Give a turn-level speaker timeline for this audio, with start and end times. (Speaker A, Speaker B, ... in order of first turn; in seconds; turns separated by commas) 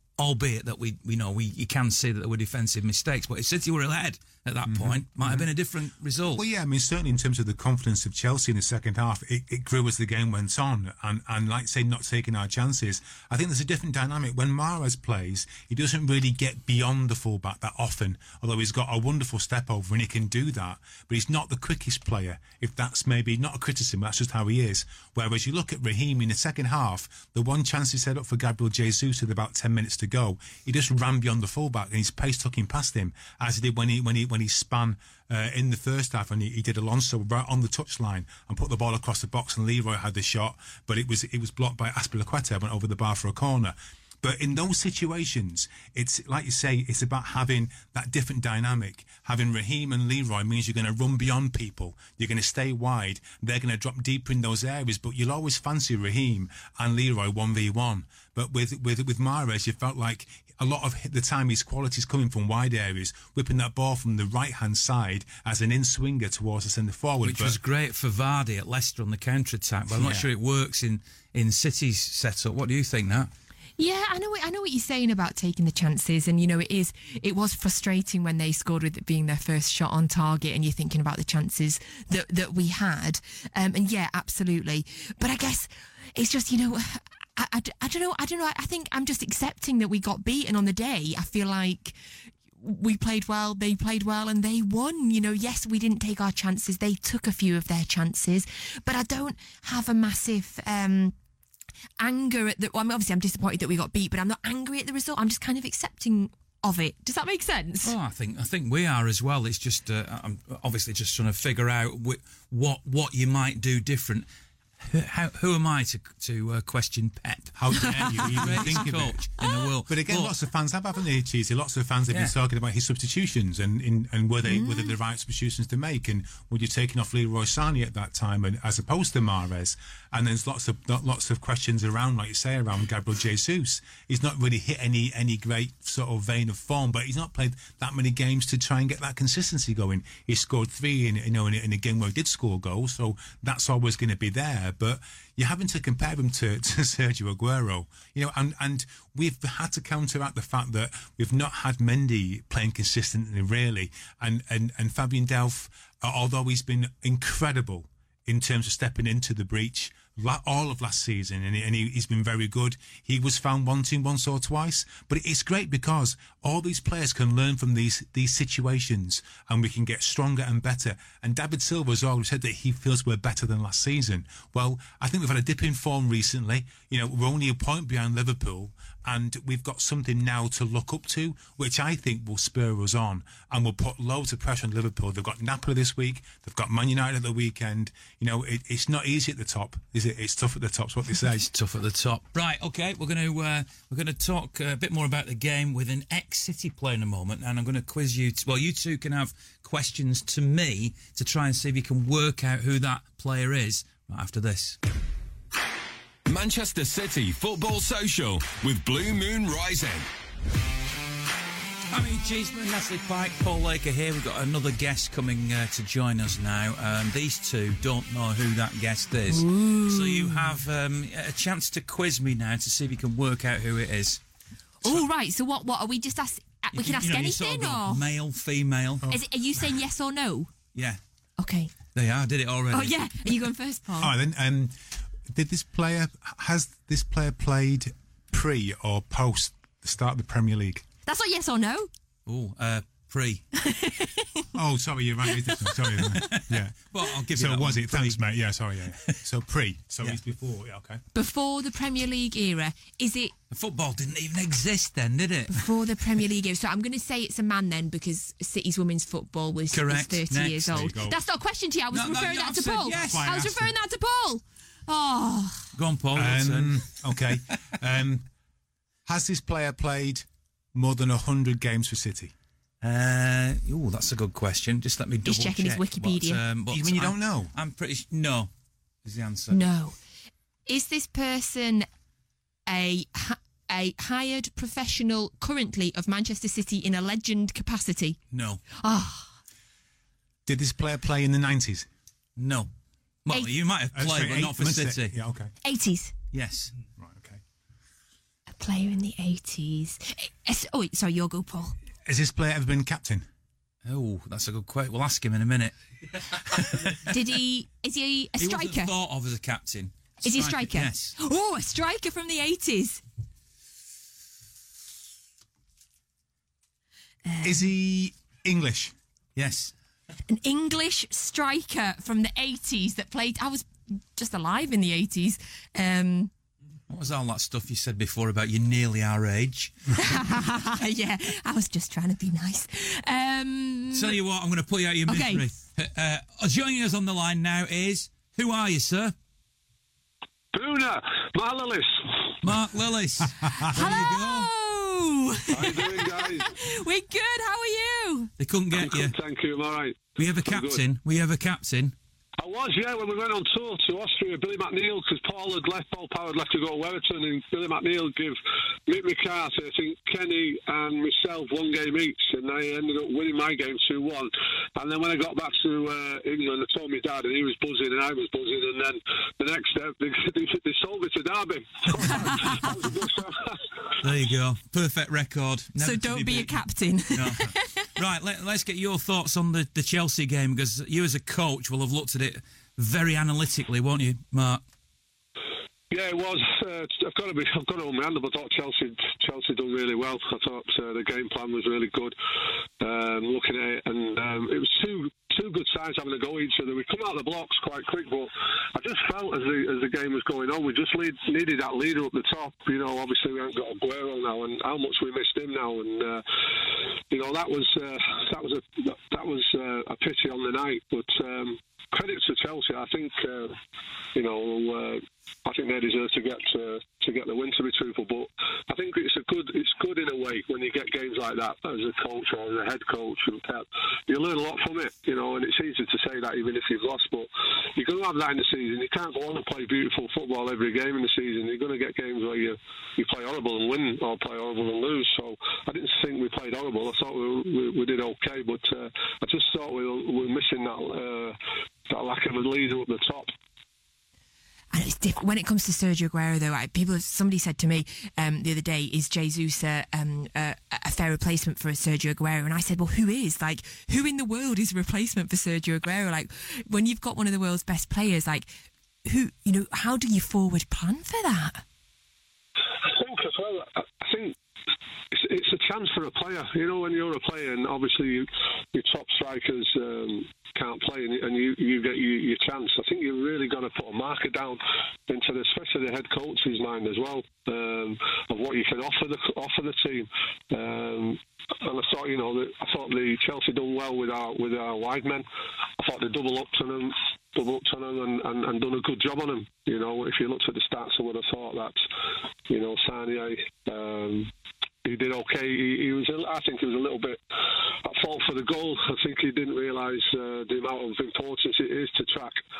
Speaker A: 0.2-6.4, Speaker B: 4.7-5.5, Speaker B: 6.3-67.6, Speaker A: 67.2-73.3, Speaker B: 69.9-70.3, Speaker C: 73.8-92.0, Speaker C: 92.6-101.1, Speaker C: 102.0-107.9, Speaker A: 107.8-114.3, Speaker A: 114.8-120.3, Speaker B: 117.6-119.2, Speaker B: 119.9-191.5, Speaker C: 124.5-124.9, Speaker A: 191.5-204.8, Speaker D: 206.3-210.1, Speaker A: 211.9-224.2, Speaker C: 219.3-220.6, Speaker C: 224.8-228.0, Speaker A: 226.7-229.1, Speaker C: 229.1-230.5, Speaker C: 231.4-231.7, Speaker A: 231.9-233.4, Speaker C: 232.7-234.1, Speaker B: 234.0-240.8, Speaker C: 241.1-241.9, Speaker A: 242.3-243.4, Speaker C: 243.6-244.5, Speaker B: 244.6-251.0, Speaker C: 245.3-245.7, Speaker A: 246.1-248.2, Speaker C: 251.1-253.3, Speaker A: 253.5-255.7, Speaker C: 255.5-265.7, Speaker A: 259.7-260.8, Speaker B: 260.7-261.2, Speaker A: 261.9-263.3, Speaker B: 262.9-263.7, Speaker A: 265.8-266.8, Speaker B: 266.1-268.3, Speaker B: 269.1-272.3, Speaker A: 272.8-278.5, Speaker C: 275.3-276.4, Speaker B: 276.7-277.5, Speaker A: 279.1-279.6, Speaker C: 279.5-280.0, Speaker C: 280.7-281.9, Speaker C: 282.7-288.2, Speaker A: 288.3-288.6, Speaker C: 288.8-289.3, Speaker B: 290.4-291.9, Speaker A: 292.4-292.7, Speaker A: 293.2-295.1, Speaker B: 293.9-295.5, Speaker C: 295.6-296.1, Speaker A: 296.3-296.7, Speaker B: 297.0-297.4, Speaker C: 298.6-301.8, Speaker B: 302.1-303.3, Speaker A: 303.9-307.1, Speaker C: 307.1-308.9, Speaker A: 308.4-311.2, Speaker C: 310.2-313.0, Speaker C: 317.3-317.7, Speaker B: 317.4-318.9, Speaker A: 319.4-319.7, Speaker C: 320.3-326.3, Speaker A: 326.9-330.2, Speaker C: 330.0-334.2, Speaker A: 333.9-339.1, Speaker C: 335.1-335.5, Speaker E: 340.5-342.4, Speaker A: 342.4-344.5, Speaker C: 343.7-348.3, Speaker E: 345.5-346.5, Speaker A: 348.4-349.1, Speaker E: 348.7-350.8, Speaker A: 350.2-351.9, Speaker E: 352.4-373.6, Speaker A: 372.1-372.5, Speaker A: 374.0-376.6, Speaker C: 375.8-377.9, Speaker A: 377.1-384.6, Speaker E: 385.9-392.2, Speaker E: 392.8-413.6, Speaker E: 414.1-441.4, Speaker E: 441.9-443.3, Speaker C: 444.7-458.5, Speaker C: 459.0-461.6, Speaker E: 462.7-464.4, Speaker E: 465.1-485.3, Speaker E: 485.8-491.8, Speaker E: 492.5-494.3, Speaker E: 494.8-497.2, Speaker E: 497.8-502.4